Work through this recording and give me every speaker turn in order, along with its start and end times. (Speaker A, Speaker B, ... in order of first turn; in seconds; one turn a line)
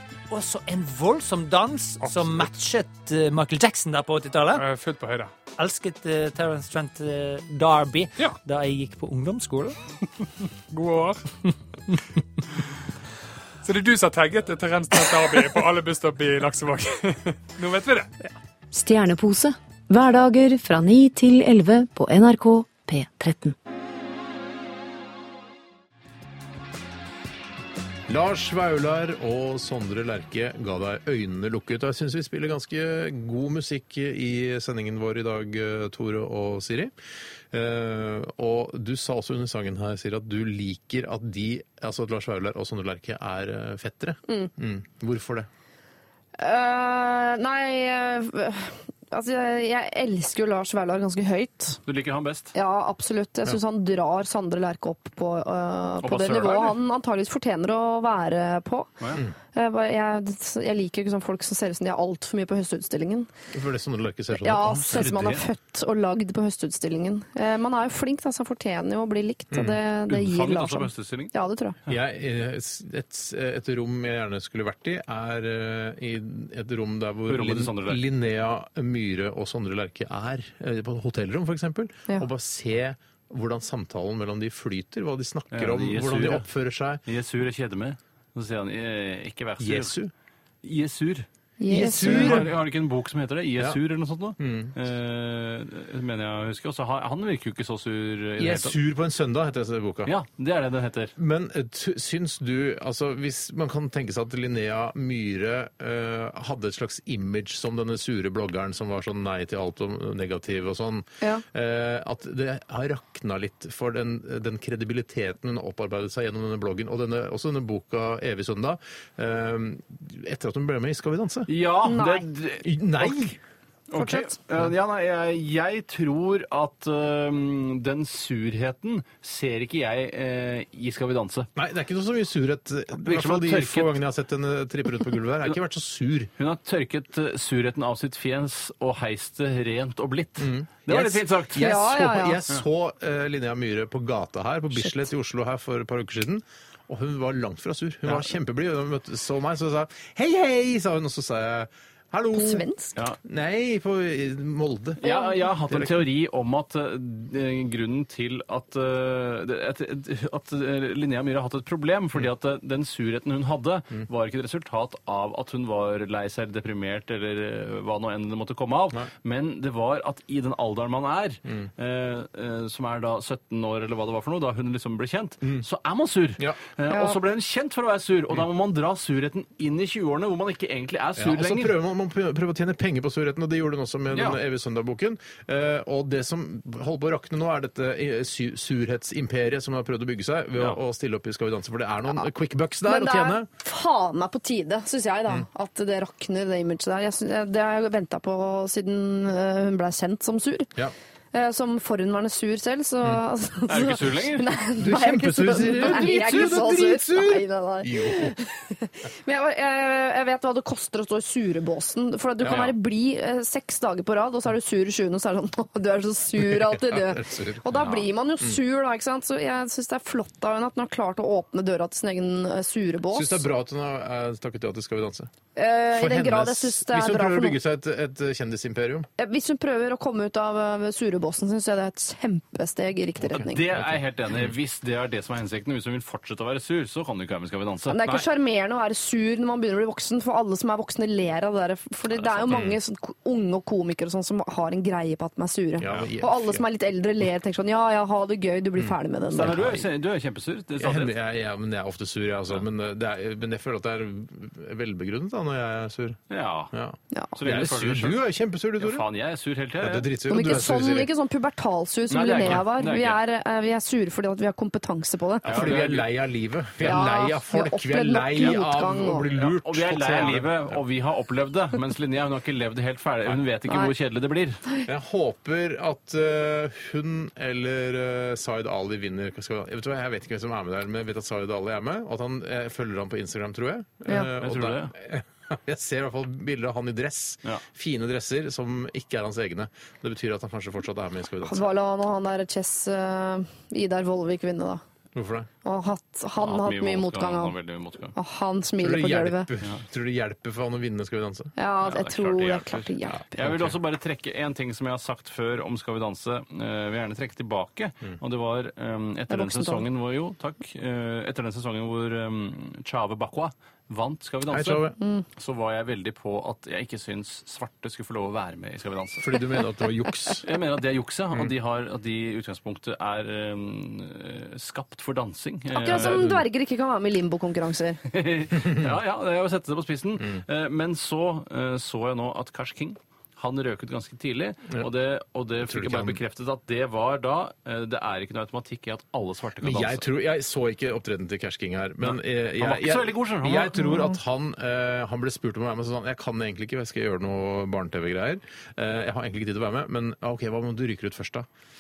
Speaker A: 0.3-4.6
Speaker B: 2.0-2.5
Speaker B: 4.6-5.3
Speaker A: 5.5-9.8
Speaker B: 10.7-11.3
Speaker B: 13.6-18.1
Speaker C: 18.7-23.6
Speaker D: 28.1-36.9
Speaker D: 37.5-45.5
Speaker E: 46.4-51.8
Speaker F: 51.9-52.5
Speaker E: 52.5-58.9
Speaker F: 56.0-56.8
Speaker E: 59.5-63.3
Speaker D: 63.5-65.1
Speaker E: 64.3-71.8
Speaker F: 64.9-65.4
Speaker D: 69.5-69.8
Speaker F: 70.1-71.3
Speaker D: 71.9-87.0
Speaker F: 77.3-78.0
Speaker F: 85.5-86.5
Speaker F: 87.1-90.0
Speaker D: 89.6-90.1
Speaker F: 90.6-98.8
Speaker E: 91.6-92.4
Speaker D: 91.7-92.6
Speaker D: 94.4-94.7
Speaker D: 98.4-100.1
Speaker F: 100.1-101.1
Speaker D: 101.2-121.5
Speaker F: 121.5-123.2
Speaker E: 121.8-122.2
Speaker D: 122.6-123.4
Speaker F: 123.9-131.5
Speaker E: 124.0-124.3
Speaker D: 131.6-136.3
Speaker F: 133.1-134.0
Speaker F: 136.4-141.8
Speaker D: 140.4-152.7
Speaker E: 141.6-142.4
Speaker E: 152.3-152.9
Speaker D: 153.2-155.0
Speaker F: 155.0-181.8
Speaker E: 155.0-155.3
Speaker D: 155.7-156.0
Speaker E: 176.9-177.2
Speaker D: 181.2-193.5
Speaker F: 184.1-184.4
Speaker E: 192.8-200.7
Speaker E: 201.3-223.5
Speaker F: 203.7-204.5
Speaker D: 204.8-208.3
Speaker D: 212.4-212.7
Speaker F: 212.5-212.7
Speaker D: 216.4-217.8
Speaker F: 217.8-218.0
Speaker D: 223.1-225.3
Speaker E: 225.6-227.6
Speaker D: 225.9-229.1
Speaker E: 229.2-233.6
Speaker D: 233.2-234.5
Speaker F: 233.4-238.2
Speaker E: 237.9-249.8
Speaker F: 242.2-242.5
Speaker D: 242.5-242.8
Speaker D: 245.8-246.6
Speaker D: 248.8-249.8
Speaker F: 249.3-251.1
Speaker D: 250.8-256.2
Speaker F: 256.3-256.7
Speaker D: 256.7-259.1
Speaker F: 257.4-258.2
Speaker F: 258.8-260.1
Speaker D: 259.8-261.1
Speaker E: 260.3-265.7
Speaker F: 262.1-263.2
Speaker D: 265.4-270.8
Speaker F: 265.4-266.1
Speaker F: 266.8-267.1
Speaker E: 266.9-269.3
Speaker F: 269.3-274.6
Speaker D: 274.9-291.7
Speaker F: 284.4-284.9
Speaker E: 291.4-294.8
Speaker D: 295.1-295.5
Speaker E: 295.6-297.6
Speaker F: 296.4-298.1
Speaker E: 298.1-299.5
Speaker D: 298.8-301.5
Speaker E: 301.6-303.4
Speaker F: 301.9-319.4
Speaker D: 303.1-303.8
Speaker E: 309.3-309.9
Speaker D: 314.5-315.0
Speaker D: 319.2-320.5
Speaker F: 320.4-326.3
Speaker E: 325.7-328.0
Speaker D: 325.9-326.4
Speaker F: 328.1-340.1
Speaker D: 335.6-336.2
Speaker D: 339.6-351.5
Speaker F: 342.0-344.1